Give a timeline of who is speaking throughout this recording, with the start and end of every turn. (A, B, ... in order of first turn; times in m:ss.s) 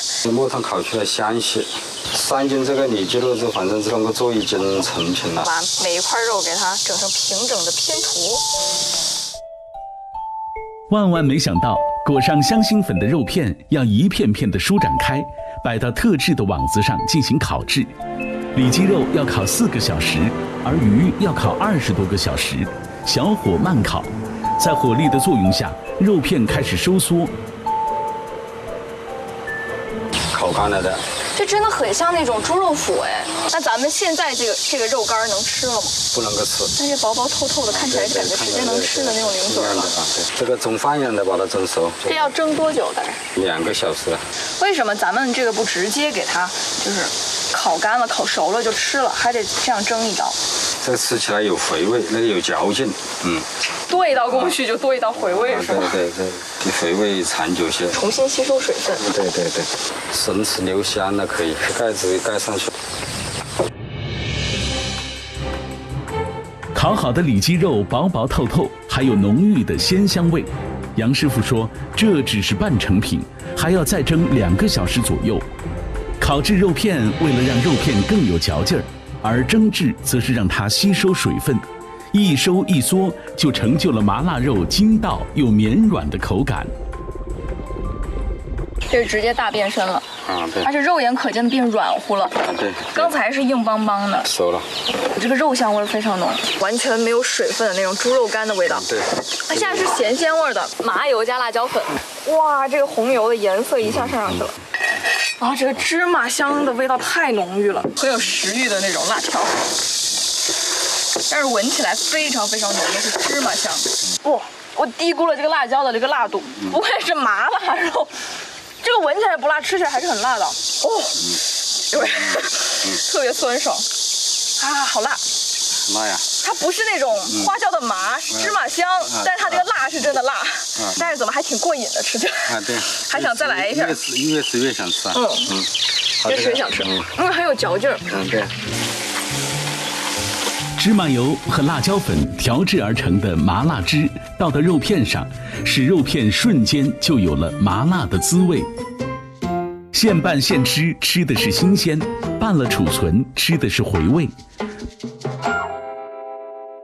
0:00.2-0:05.5 A
0:05.4-0:08.4 B
0:10.9-0:17.9 C
0:18.5-0:27.3 C
0:30.3-0:31.0 A
0:31.3-0:36.0 B
0:36.1-0:36.7 A
0:36.8-0:39.9 B
0:37.7-0:42.3 A
0:42.1-0:43.2 B
0:43.3-0:44.2 A
0:44.6-0:50.4 B
0:50.8-0:53.4 A
0:53.9-0:56.0 B
0:55.2-0:58.0 A
0:57.9-0:59.0 B
0:58.9-1:02.7 A
1:06.7-1:15.4 C
1:16.2-1:26.7 C
1:28.9-1:30.0 B
1:30.3-1:30.7 A
1:30.6-1:32.4 B
1:32.4-1:33.1 A
1:32.9-1:34.3 B
1:34.3-1:34.7 A
1:35.1-1:38.8 B
1:38.7-1:39.6 A
1:39.5-1:44.5 B
1:45.4-1:49.6 B
1:51.3-1:58.1 B
1:58.8-2:01.4 B
2:01.9-2:03.8 B
2:01.9-2:03.0 A
2:04.6-2:05.2 B
2:05.8-2:06.3 A
2:06.4-2:14.0 B
2:08.3-2:08.6 A
2:09.1-2:09.6 A
2:10.8-2:11.0 A
2:12.4-2:15.7 A
2:15.1-2:15.5 B
2:16.2-2:17.1 A
2:16.2-2:18.0 B
2:18.1-2:18.5 A
2:20.8-2:28.7 C
2:29.9-2:34.3 C